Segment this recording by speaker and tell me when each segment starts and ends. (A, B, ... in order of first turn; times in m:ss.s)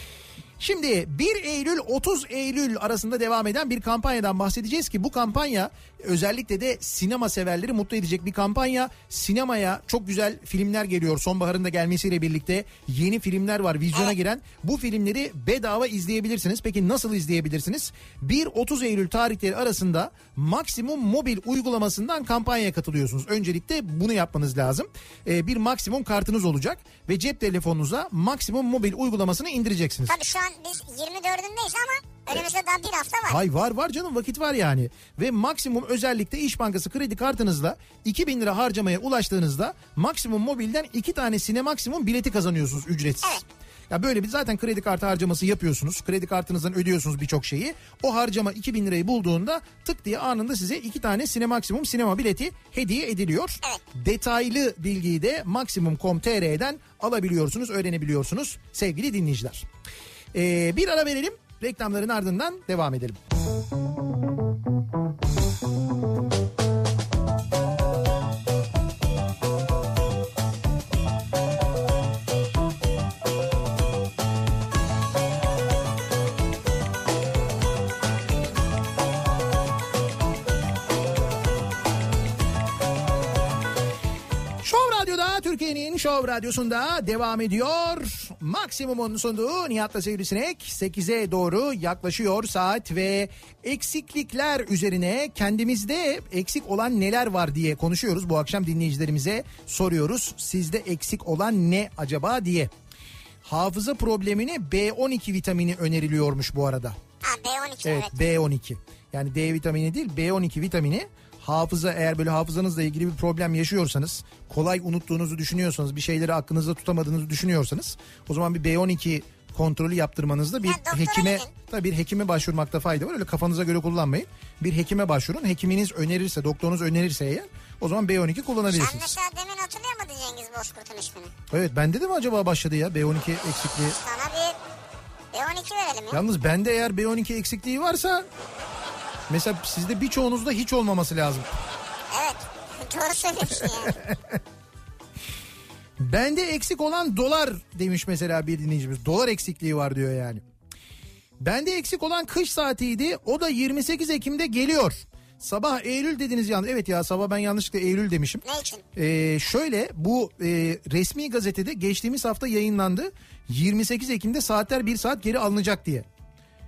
0:00.6-0:30.2 A
0:30.1-0:33.4 B
0:33.3-0:59.7 A
1:00.3-1:03.2 A
1:24.6-1:42.7 A
1:43.4-1:47.0 A
1:47.2-1:48.2 B
1:47.8-2:09.1 A
2:00.6-2:01.5 B
2:08.7-2:11.3 B
2:11.5-2:14.0 A
2:13.9-2:14.6 B
2:15.3-2:16.2 B
2:16.1-2:18.3 A
2:19.3-2:21.5 A
2:22.1-2:24.0 B
2:23.8-2:24.4 A
2:26.0-2:30.4 A
2:31.4-2:38.4 A
2:38.4-2:38.8 B
2:39.0-2:46.1 A